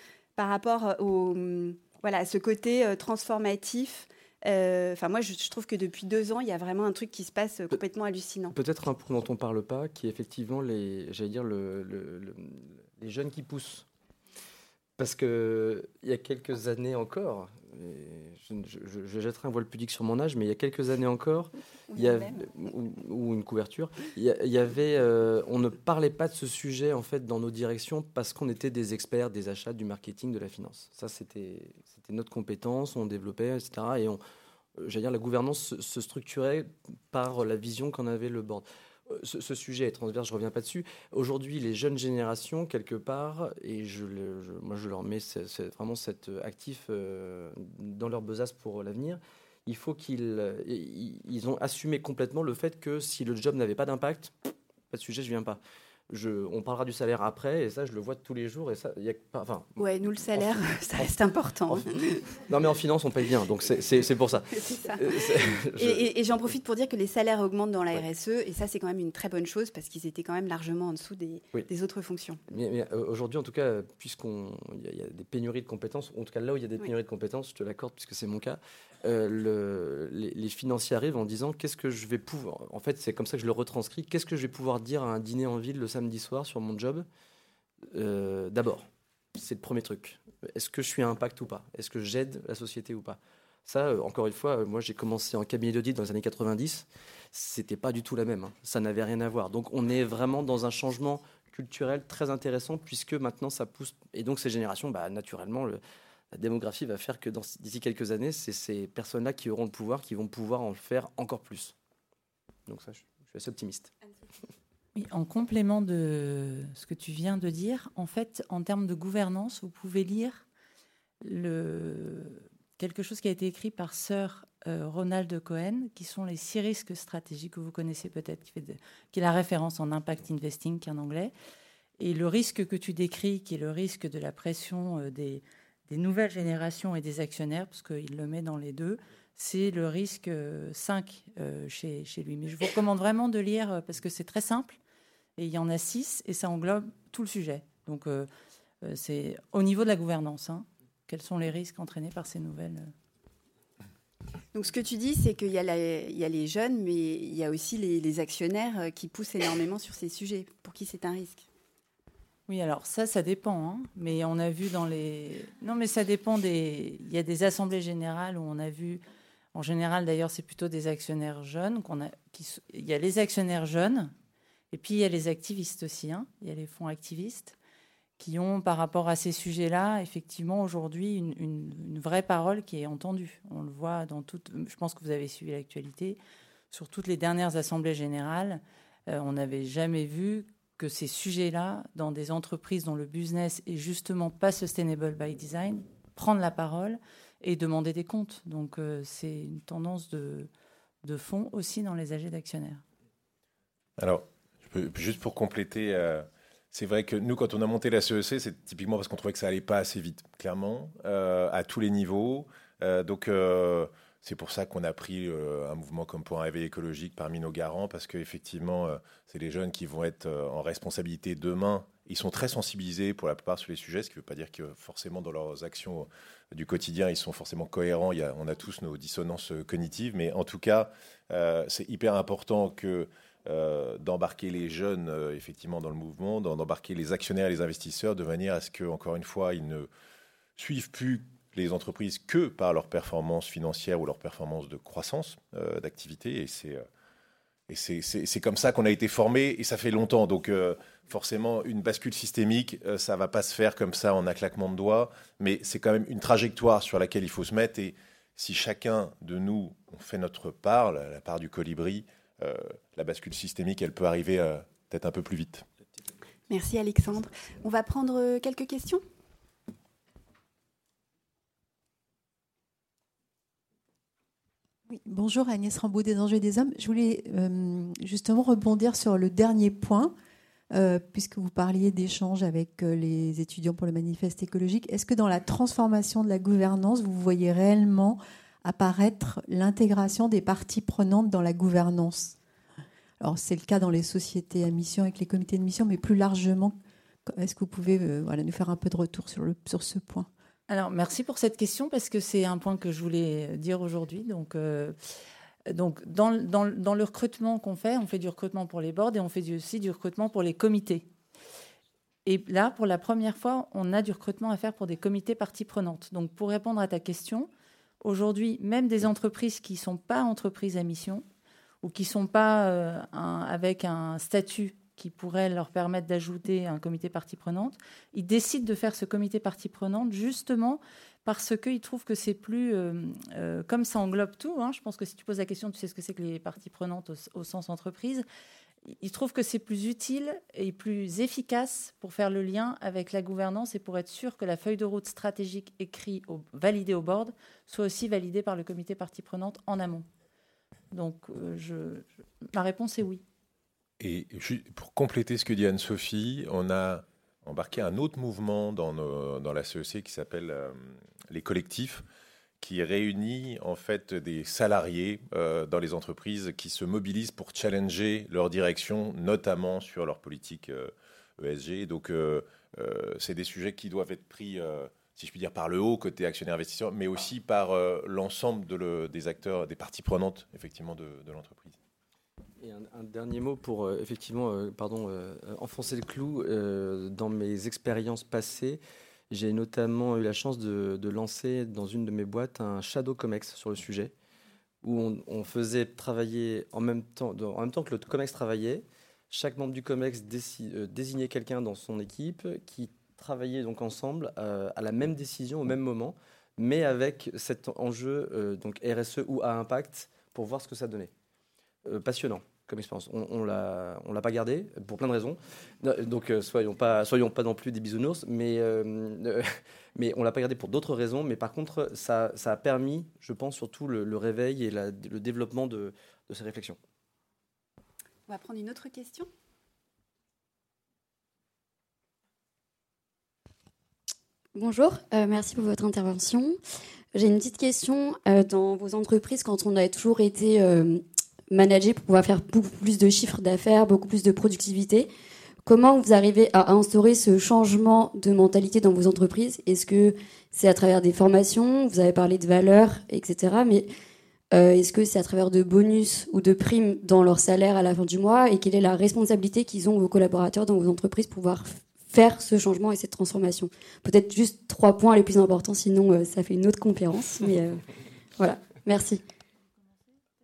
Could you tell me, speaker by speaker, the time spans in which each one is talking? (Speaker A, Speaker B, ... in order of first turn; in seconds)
Speaker A: 0.4-8.6, 21.9-22.4, 59.8-62.3, 64.5-72.4, 154.5-161.5, 266.5-269.0, 428.3-429.3
Speaker B: 8.5-13.8, 15.0-34.2, 34.8-54.3, 54.9-59.8, 60.3-61.1, 62.4-66.1, 72.5-87.0, 87.9-105.8, 106.3-111.7, 112.7-113.9, 382.6-394.1, 394.8-411.1, 411.8-426.8
Speaker C: 114.9-120.4, 121.2-131.3, 132.0-144.8, 145.4-148.3, 148.8-152.9, 162.5-169.0, 169.5-174.1, 174.7-177.6, 178.2-186.2, 186.7-200.5, 201.0-202.8, 300.7-305.0, 305.7-311.1, 312.2-317.5, 318.0-321.2, 321.8-338.2, 338.9-350.1, 350.9-353.2
Speaker D: 204.0-239.9, 240.6-246.8, 247.7-265.6, 354.0-362.0, 362.6-381.8
Speaker E: 274.9-280.1, 280.7-292.4, 293.2-300.3
Speaker F: 434.5-436.6, 437.1-445.1, 445.6-453.9, 454.5-467.9, 468.4-469.2